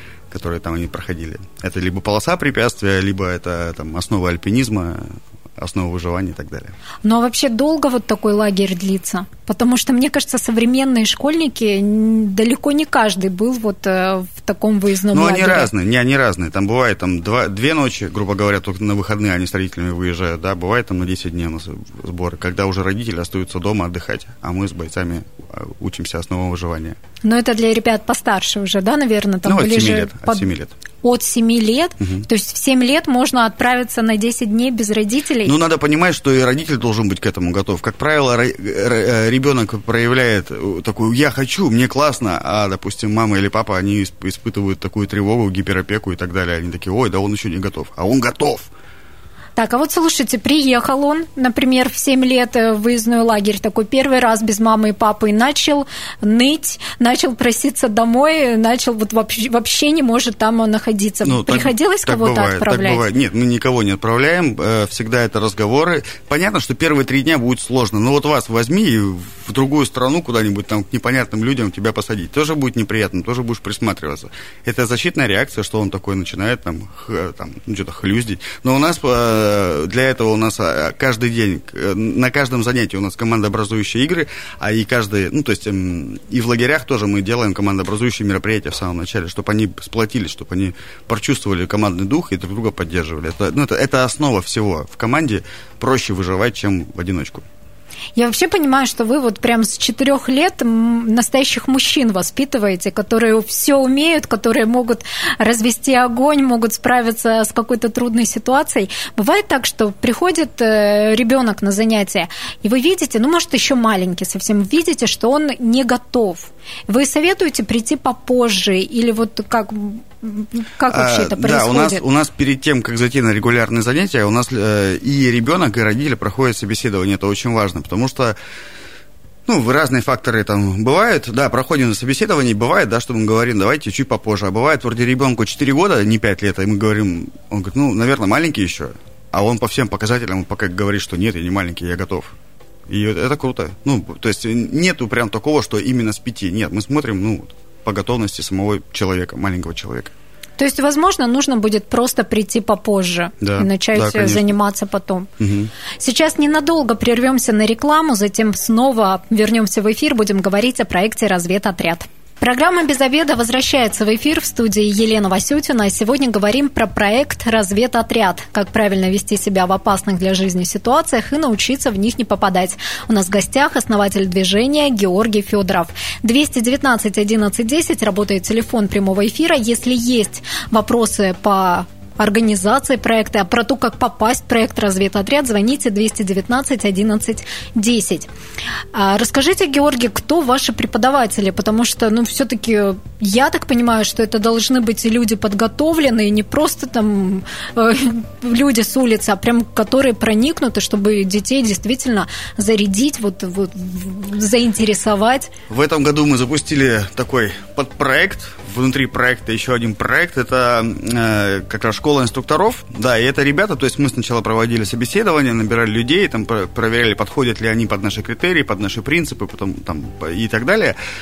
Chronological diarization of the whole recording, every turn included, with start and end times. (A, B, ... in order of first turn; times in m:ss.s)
0:00.3-0:06.7 A
0:07.0-0:15.7 B
0:15.1-0:27.0 A
0:27.2-0:30.5 B
0:29.4-0:30.7 A
0:31.0-0:35.5 B
0:35.4-0:48.7 A
0:49.6-1:03.0 B
1:01.2-1:37.4 A
1:38.2-2:02.0 B
2:00.9-2:08.4 A
2:09.4-2:22.3 A
2:22.9-2:30.1 A
2:30.6-2:35.3 B
2:33.4-2:34.5 A
2:35.4-2:35.7 A
2:36.0-3:08.3 B
3:08.9-3:25.5 B
3:25.7-3:41.0 A